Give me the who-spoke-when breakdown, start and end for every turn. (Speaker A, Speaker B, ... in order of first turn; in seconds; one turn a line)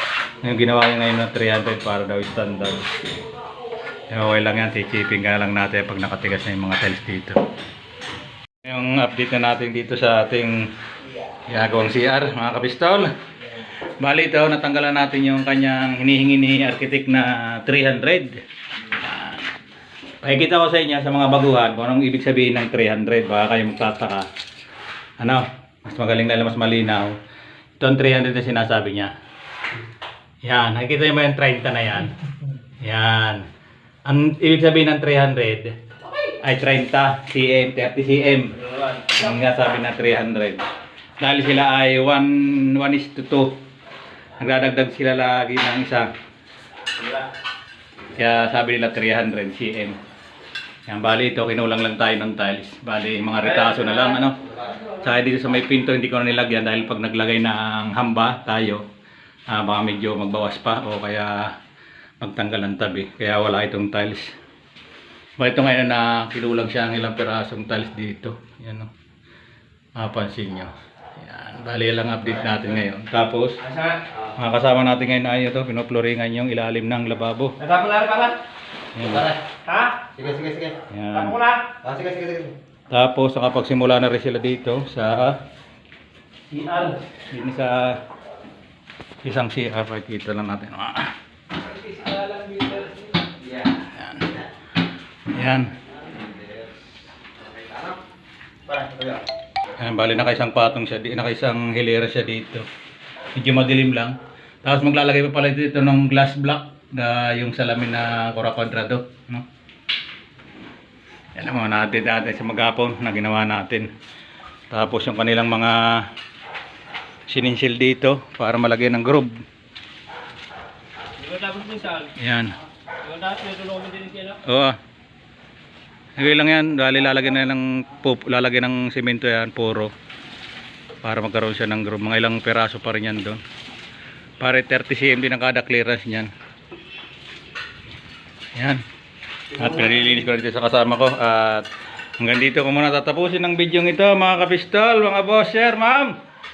Speaker A: 0.4-2.9
Speaker A: 4.1-7.4
Speaker A: 8.6-10.7
Speaker A: 11.5-13.1
Speaker A: 14.0-19.4
Speaker A: 20.2-24.3
Speaker A: 25.2-27.2
Speaker A: 27.8-29.1
Speaker A: 30.4-32.1
Speaker A: 32.8-33.5
Speaker A: 34.0-35.7
Speaker A: 36.2-40.7
Speaker A: 41.2-43.6
Speaker A: 44.4-46.1
Speaker A: 48.1-50.0
Speaker A: 50.9-58.8
Speaker A: 59.5-61.5
Speaker A: 62.2-64.3
Speaker A: 65.4-68.9
Speaker A: 70.0-77.6
Speaker B: 77.7-78.3
Speaker C: 77.7-78.3
Speaker A: 78.9-79.3
Speaker B: 79.1-80.8
Speaker C: 79.7-79.9
Speaker A: 80.9-81.4
Speaker C: 81.3-81.8
Speaker B: 81.6-82.5
Speaker A: 82.9-85.4
Speaker A: 86.6-88.0
Speaker A: 89.2-91.1
Speaker B: 91.9-92.8
Speaker C: 92.2-92.6
Speaker A: 93.8-94.4
Speaker A: 95.3-95.7
Speaker B: 98.7-99.2
Speaker A: 99.8-102.7
Speaker A: 103.3-109.5
Speaker A: 111.3-113.9
Speaker A: 114.7-116.1
Speaker A: 117.3-119.4
Speaker C: 121.2-122.1
Speaker A: 122.0-122.5
Speaker C: 123.0-124.3
Speaker A: 124.2-124.8
Speaker A: 126.2-129.9
Speaker A: 131.0-133.4
Speaker A: 134.4-136.3
Speaker A: 138.6-138.8
Speaker A: 139.5-141.7
Speaker A: 142.2-146.2